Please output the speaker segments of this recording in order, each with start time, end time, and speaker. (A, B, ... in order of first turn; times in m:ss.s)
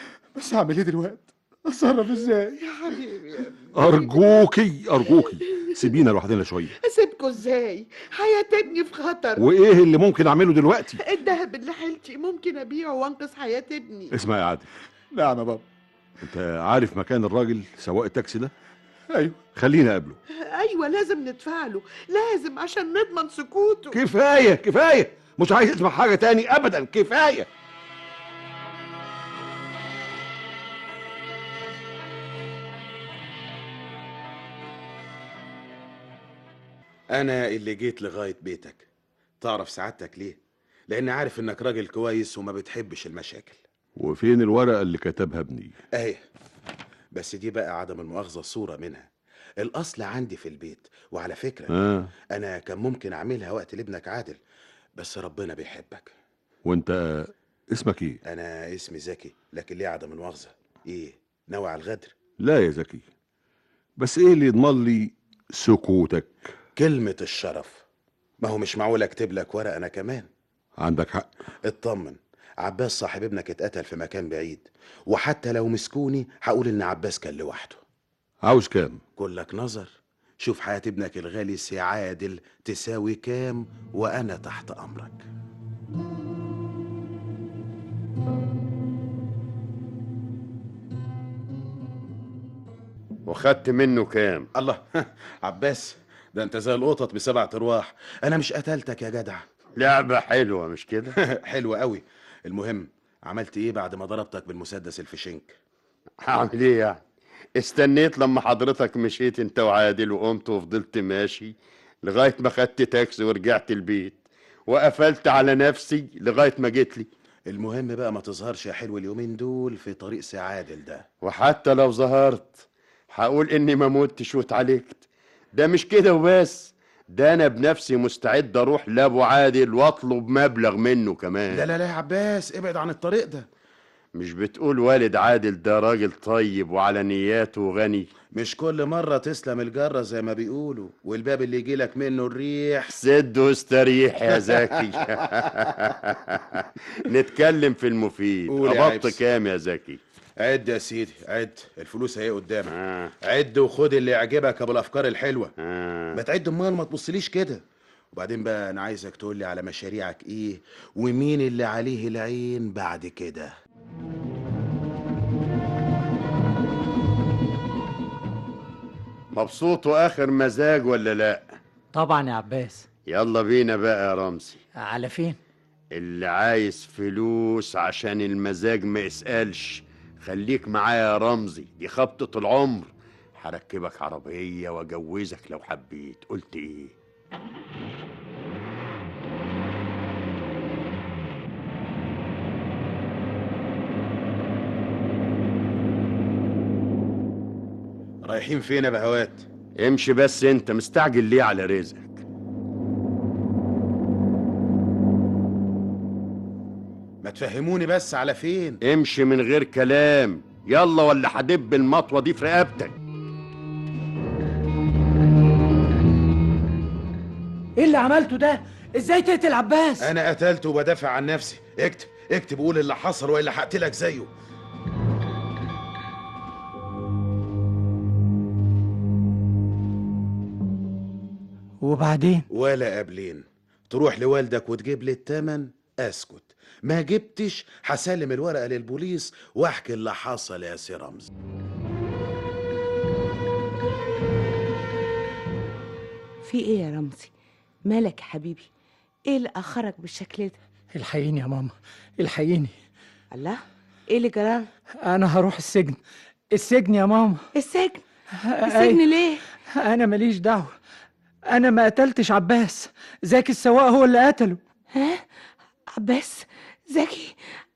0:00.4-0:02.6 A
0:02.6-0:04.1 B
0:03.7-0:06.8 C
0:05.5-0:05.8 B
0:06.8-0:09.4 B
0:09.4-0:11.0 C
0:11.0-0:14.1 B
0:14.1-0:14.7 C
0:15.1-0:15.6 A
0:16.2-0:18.5 C
0:19.1-0:19.5 A
0:19.5-0:20.2 C
0:20.4-0:24.0 B
0:23.9-0:27.5 C
0:37.2-0:38.9 D
0:39.4-0:40.4 D
0:40.9-0:43.6 D
0:44.0-0:45.8 C
0:45.9-0:46.2 D
0:47.1-0:49.1 D
0:49.6-0:51.7 D
0:51.7-0:52.1 C
0:52.3-0:54.4 D
0:55.0-0:56.1 D
0:56.6-0:58.2 C
0:58.2-1:02.1 D
1:02.4-1:03.0 C
1:04.0-1:06.5 C
1:06.8-1:07.8 D
1:08.4-1:10.3 D
1:10.8-1:11.3 C
1:11.6-1:17.8 D
1:18.4-1:19.0 C
1:19.2-1:25.2 D
1:33.3-1:34.5 E
1:34.6-1:39.4 D
1:39.8-1:41.2 E
1:41.2-1:45.6 D
1:46.2-1:47.0 E
1:47.6-1:51.5 E
1:52.0-1:57.1 E
1:57.5-2:01.0 D
2:01.2-2:05.0 E
2:05.6-2:11.7 E
2:11.5-2:13.5 D
2:14.2-2:18.1 E
2:18.3-2:22.9 D
2:22.9-2:30.0 E
2:28.5-2:29.2 D
2:30.4-2:35.5 D
2:32.7-2:33.1 E
2:35.6-2:36.2 E
2:36.1-2:43.5 D
2:49.3-2:51.4 E
2:51.9-2:52.9 F
2:53.1-2:54.6 E
2:54.8-2:55.4 F
2:55.9-3:06.9 E
3:18.2-3:19.4 D
3:19.8-3:22.2 E
3:27.2-3:28.8 D
3:28.8-3:32.9 E
3:37.8-3:40.1 F
3:40.0-3:44.3 D
3:51.8-3:52.5 F
3:52.5-4:01.3 D
4:06.4-4:07.3 G
4:07.9-4:08.7 G
4:09.3-4:10.6 G
4:10.9-4:12.7 F
4:13.3-4:14.7 G
4:15.0-4:16.0 F
4:16.5-4:17.4 F
4:17.6-4:18.0 G
4:18.4-4:19.0 F
4:18.7-4:19.4 G
4:19.8-4:20.8 F
4:21.5-4:24.6 F
4:25.0-4:25.2 G
4:25.9-4:27.4 G